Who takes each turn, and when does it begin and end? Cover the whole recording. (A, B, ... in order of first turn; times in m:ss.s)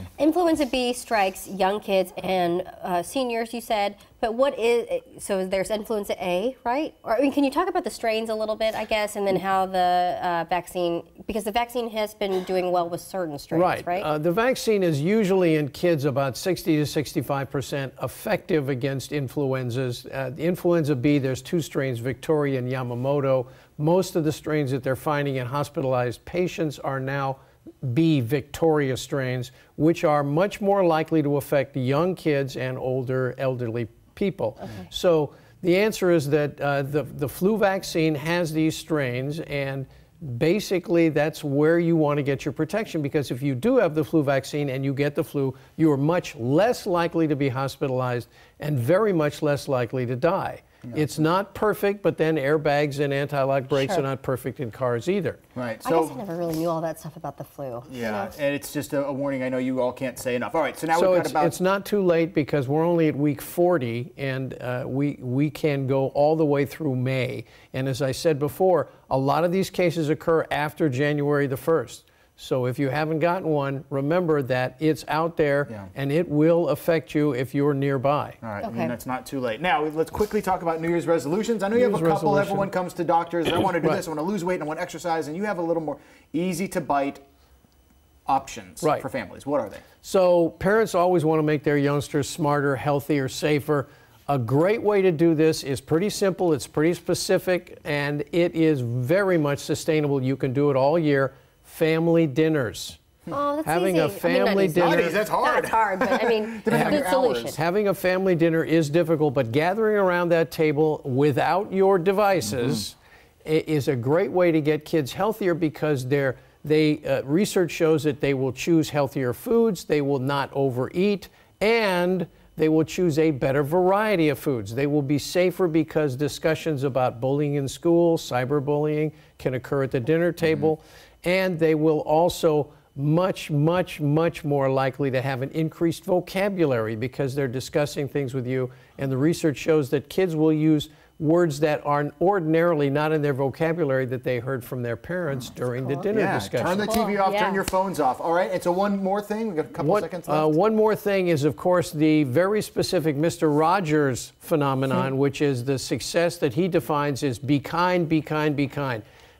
0:00.2-0:14.1 A
0:13.5-0:55.4 B
0:53.7-0:54.0 A
0:55.5-0:56.2 C
0:55.8-0:58.3 A
0:57.9-1:01.6 C
1:00.9-1:18.4 B
1:18.4-1:27.2 C
1:18.6-1:18.9 A
1:21.7-1:22.7 B
1:23.6-1:24.0 B
1:28.3-1:29.8 C
1:30.0-1:43.0 B
1:43.3-1:47.6 A
1:43.6-1:45.2 B
1:44.8-1:47.6 C
1:46.7-2:27.0 B
2:25.8-2:26.1 A
2:26.1-2:30.6 C
2:26.6-2:27.6 A
2:29.8-2:39.0 B